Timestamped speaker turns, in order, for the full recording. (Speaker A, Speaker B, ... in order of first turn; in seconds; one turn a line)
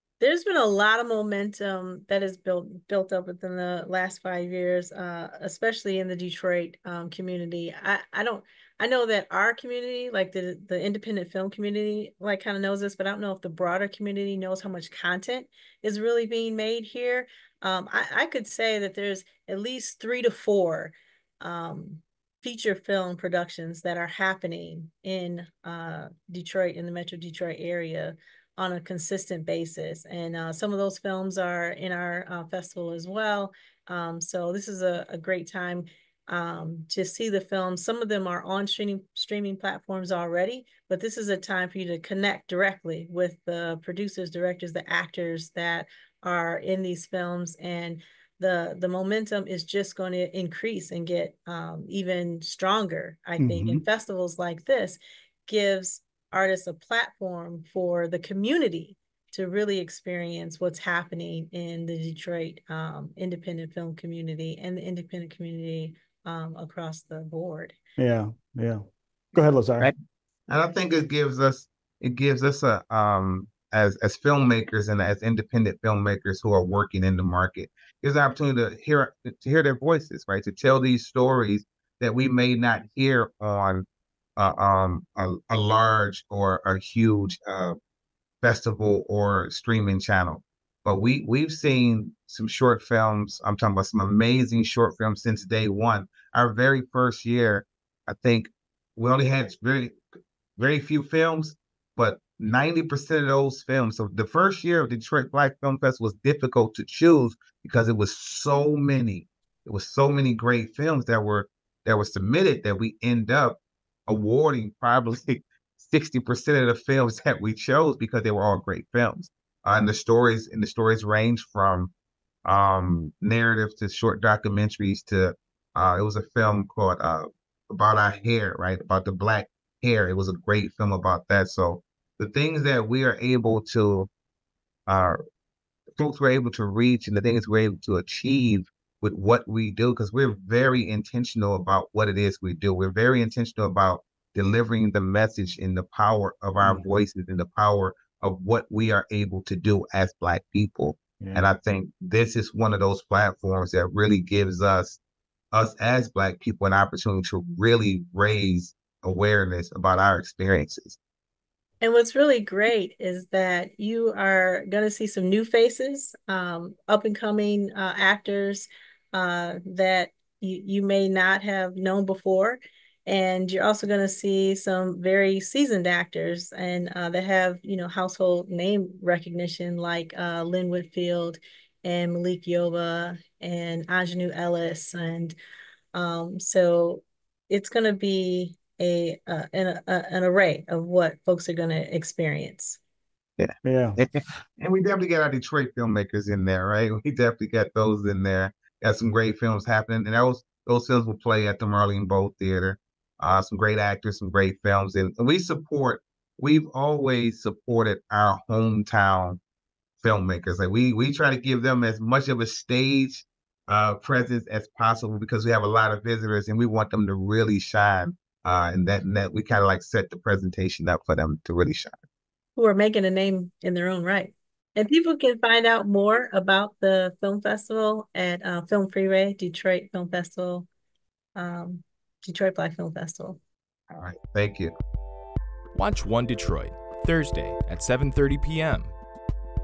Speaker A: 0.2-67.8
Speaker B: 53.4-53.8
Speaker B: 68.0-68.8
Speaker B: 69.3-69.9
Speaker C: 70.5-83.8
Speaker C: 84.4-87.8
Speaker C: 88.4-100.0
Speaker C: 100.6-121.9
Speaker C: 122.5-134.1
Speaker C: 134.9-135.2
Speaker C: 136.0-155.0
Speaker B: 146.6-146.9
Speaker B: 151.2-151.5
Speaker C: 155.5-161.0
Speaker A: 161.8-185.3
Speaker A: 185.9-192.8
Speaker C: 193.4-209.4
Speaker B: 193.6-194.0
Speaker C: 210.0-222.0
Speaker A: 222.6-230.7
Speaker A: 231.3-233.4
Speaker C: 233.9-234.7
Speaker D: 235.8-238.9